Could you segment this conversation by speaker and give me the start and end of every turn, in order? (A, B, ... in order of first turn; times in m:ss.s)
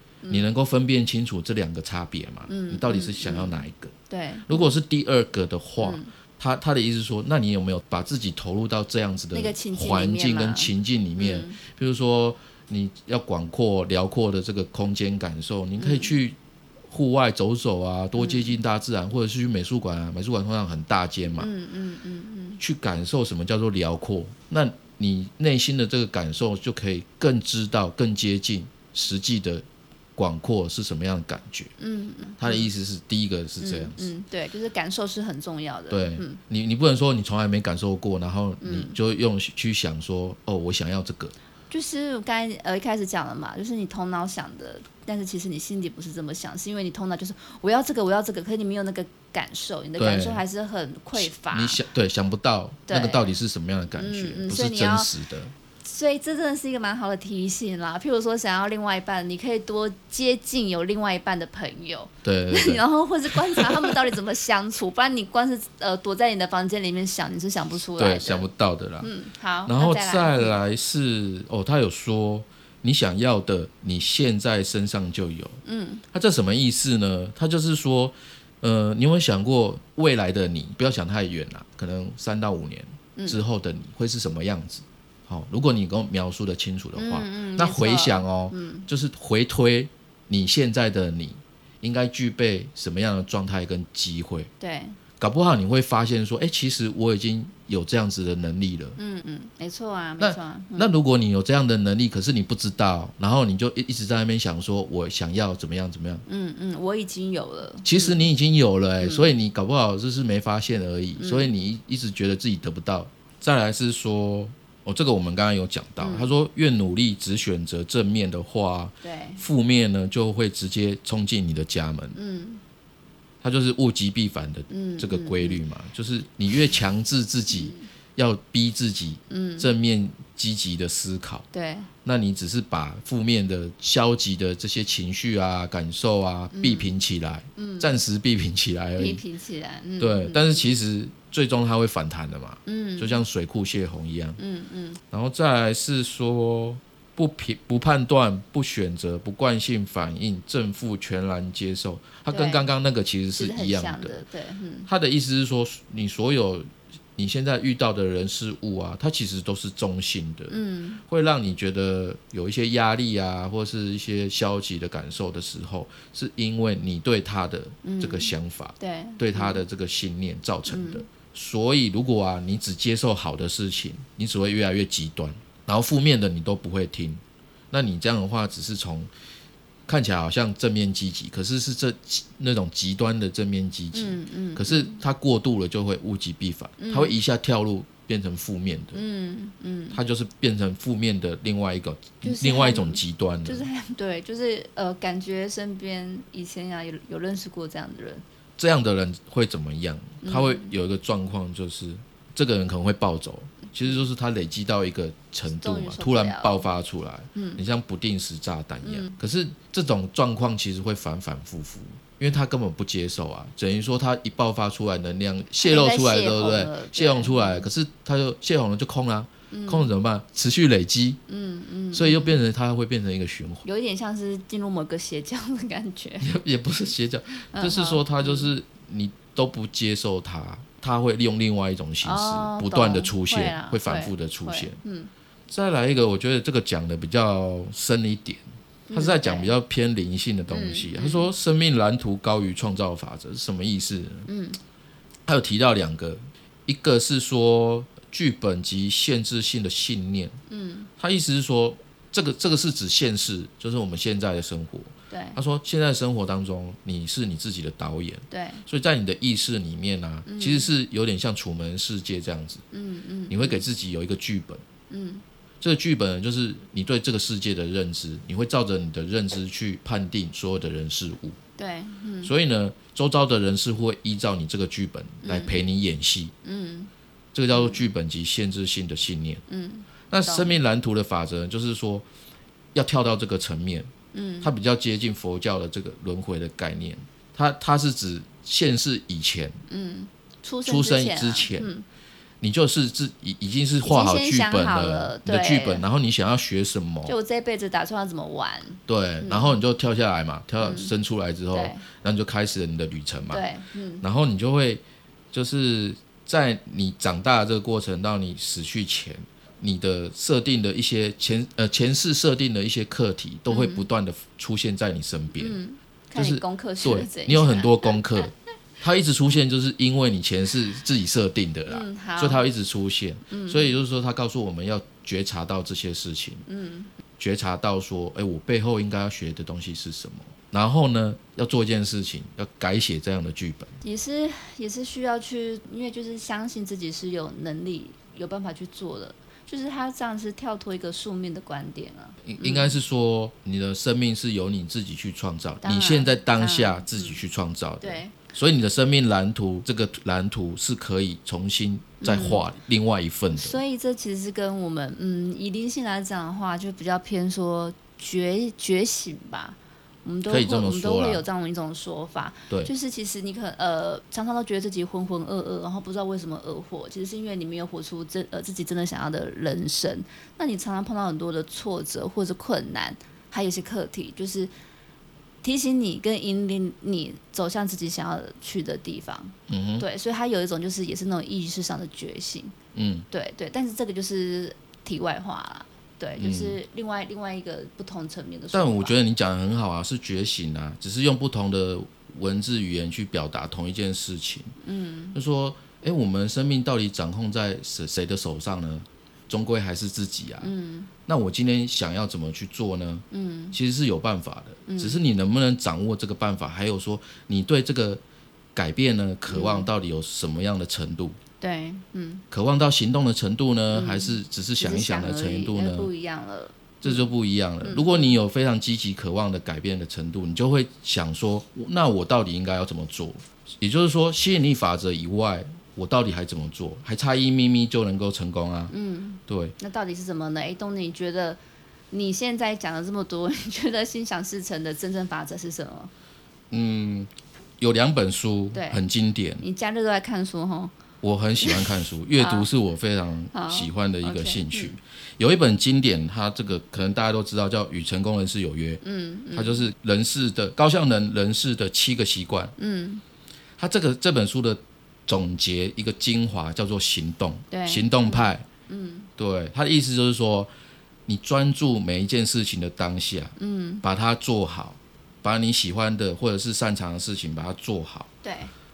0:00.2-0:00.5 A
0:00.3-0:03.9 B
0:02.5-0:04.7 A
0:04.4-0:16.4 B
0:05.8-0:06.1 A
0:09.3-0:11.6 A
0:15.8-0:16.1 A
0:16.9-0:21.5 B
0:18.2-0:18.6 A
0:21.4-0:22.6 A
0:22.6-0:29.6 B
0:30.2-0:31.7 B
0:31.8-0:32.7 A
0:32.4-0:34.1 B
0:33.6-0:36.4 A
0:35.9-0:41.3 B
0:38.6-0:38.9 A
0:41.7-0:51.8 A
0:50.0-0:50.4 B
0:51.2-0:55.5 B
0:52.9-0:53.3 A
0:54.0-0:55.1 A
0:55.8-1:08.5 A
1:02.2-1:04.1 B
1:08.0-1:09.1 B
1:09.0-1:10.6 A
1:09.6-1:15.6 B
1:15.6-1:16.0 A
1:16.1-1:34.5 B
1:27.0-1:28.9 A
1:34.6-1:35.0 A
1:35.2-1:39.0 B
1:39.0-1:40.9 A
1:40.2-1:46.2 B
1:46.2-1:48.2 A
1:47.8-2:02.2 B
1:49.0-1:49.3 A
1:51.2-1:51.5 A
1:56.0-1:56.3 A
1:59.0-1:59.4 A
2:02.1-2:02.6 A
2:03.4-2:11.4 B
2:04.7-2:05.6 A
2:07.5-2:07.8 A
2:09.3-2:09.7 A
2:11.5-2:11.9 A
2:12.0-2:19.2 B
2:16.5-2:16.9 A
2:17.6-2:17.9 A
2:19.0-2:20.7 A
2:20.0-2:24.4 B
2:22.6-2:23.2 A
2:24.4-2:25.0 A
2:25.1-2:34.2 B
2:32.3-2:32.6 A
2:33.3-2:34.9 A
2:34.9-2:40.6 B
2:40.5-2:41.0 A
2:41.1-2:59.1 B
2:47.8-2:49.6 A
2:50.7-2:51.0 A
2:59.9-3:09.0 B
3:03.9-3:05.0 A
3:06.8-3:07.2 A
3:08.9-3:10.0 A
3:09.9-3:13.7 B
3:12.2-3:18.2 A
3:18.6-3:41.2 B
3:20.2-3:20.7 A
3:25.5-3:26.6 A
3:27.3-3:27.6 A
3:28.8-3:29.2 A
3:35.6-3:37.7 A
3:39.5-3:39.9 A
3:41.3-3:42.4 A
3:41.9-3:43.6 B
3:43.6-3:46.3 A
3:46.2-3:54.8 B
3:47.5-3:48.5 A
3:52.0-3:55.1 A
3:55.5-3:58.4 B
3:58.9-3:59.5 A
3:58.9-4:04.3 B
4:00.5-4:01.3 A
4:04.2-4:04.6 A
4:05.2-4:10.3 B
4:10.5-4:10.9 A
4:11.0-4:22.6 B
4:15.1-4:15.4 A
4:18.3-4:18.6 A
4:20.2-4:20.7 A
4:22.7-4:23.6 A
4:23.3-4:24.6 B
4:24.9-4:25.2 A
4:25.6-4:31.4 B
4:31.6-4:32.3 A
4:32.2-4:36.3 B
4:35.2-4:35.6 A
4:36.4-4:36.9 A
4:37.3-4:39.4 B
4:37.5-4:37.8 A
4:39.5-4:40.6 A
4:40.1-4:42.0 B
4:42.7-4:43.9 B
4:44.1-4:44.5 A
4:44.4-4:49.6 B
4:49.7-4:51.8 A
4:50.6-4:51.7 B
4:52.4-4:57.2 B
4:53.8-4:55.8 A
4:57.0-4:59.6 A
4:58.9-5:03.5 B
5:00.6-5:00.9 A
5:01.5-5:01.8 A
5:03.3-5:04.0 A
5:04.0-5:15.6 B
5:13.5-5:13.9 A
5:15.4-5:18.3 A
5:16.1-5:26.4 B
5:21.7-5:22.5 A
5:23.3-5:23.8 A
5:26.5-5:26.9 A
5:27.2-5:33.7 B
5:33.8-5:42.8 A
5:42.2-5:53.6 B
5:45.6-5:47.2 A
5:47.8-5:48.1 A
5:52.0-5:52.5 A
5:53.3-6:14.5 A
6:00.3-6:01.2 B
6:15.4-6:22.5 A
6:19.5-6:19.8 B
6:22.7-6:23.0 B
6:23.1-6:28.9 A
6:26.2-6:26.6 B
6:28.5-6:34.5 B
6:34.6-6:35.2 A
6:35.1-6:40.5 B
6:40.4-6:40.9 A
6:41.1-6:48.0 B
6:43.1-6:43.6 A
6:44.7-6:45.0 A
6:48.5-6:51.2 B
6:49.3-6:49.7 A
6:51.4-6:52.2 A
6:52.3-6:55.9 B
6:53.7-6:57.0 A
6:56.8-7:08.7 B
6:57.6-6:58.2 A
7:08.7-7:11.4 A
7:09.3-7:09.6 B
7:11.9-7:15.9 A
7:16.5-7:19.4 B
7:18.5-7:18.8 A
7:19.4-7:20.7 A
7:21.0-7:28.8 B
7:21.4-7:22.5 A
7:23.3-7:24.8 A
7:28.8-7:29.6 A
7:29.3-7:32.5 B
7:32.6-7:33.0 A
7:33.6-7:38.4 B
7:37.5-7:39.1 A
7:39.2-7:40.5 B
7:41.1-7:48.1 B
7:43.4-7:43.8 A
7:48.2-7:48.5 A